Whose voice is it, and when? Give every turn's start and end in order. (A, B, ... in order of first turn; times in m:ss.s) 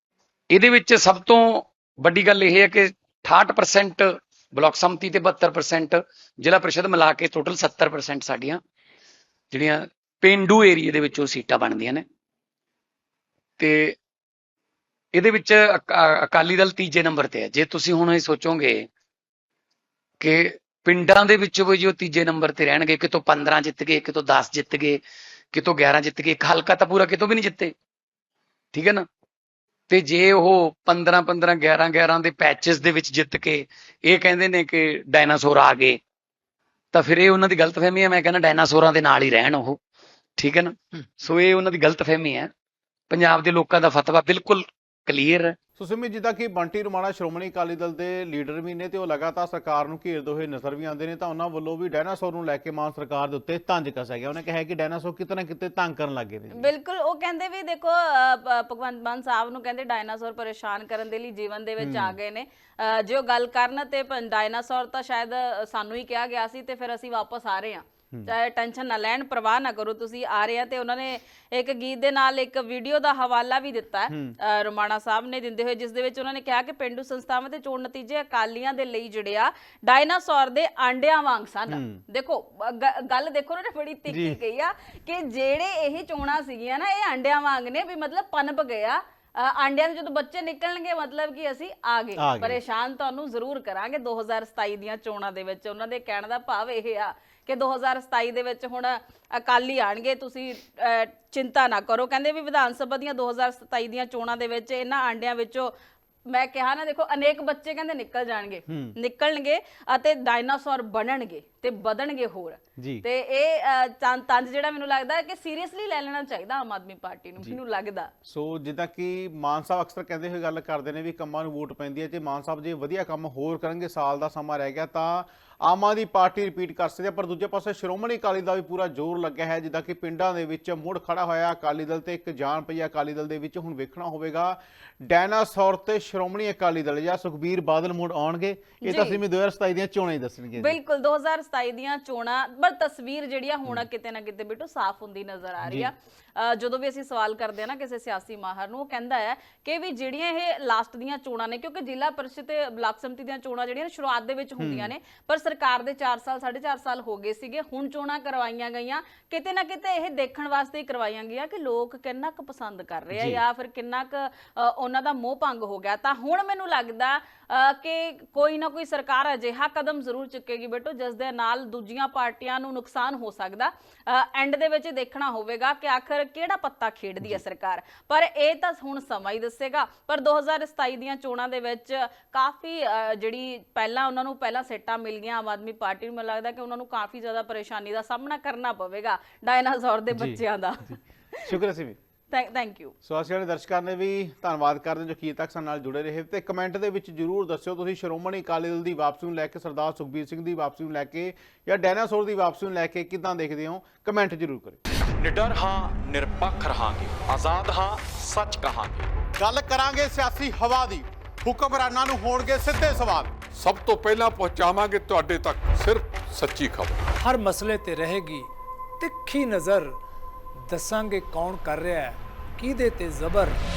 0:00.5-0:08.6 A
0:09.5-0:12.0 A
0:13.6-0:14.0 A
0:15.1-0:18.9 A
0:20.2-0:25.0 A
0:25.5-0:27.7 A
0:28.7-0:29.0 A
0:29.9-0:36.0 A
0:36.9-0:39.8 A
0:40.4-0:42.5 A
0:43.1-0:45.6 A
0:45.8-0:56.7 B
0:56.5-1:45.7 C
1:01.8-1:02.2 B
1:14.1-1:14.4 B
1:21.7-1:22.0 B
1:24.1-1:24.4 B
1:32.2-1:32.6 B
1:46.3-1:58.1 C
1:48.7-1:49.0 B
1:52.8-1:53.0 B
1:58.2-2:20.8 B
2:18.8-2:19.2 C
2:20.6-3:11.0 C
2:25.6-2:25.9 B
2:34.6-2:34.9 B
2:43.1-2:43.4 B
3:10.1-3:12.0 B
3:12.3-3:12.9 C
3:13.0-3:24.8 B
3:25.2-3:29.1 D
3:29.4-3:33.3 B
3:33.5-3:37.0 E
3:37.2-3:38.5 F
3:39.0-3:40.0 F
3:40.7-3:43.6 F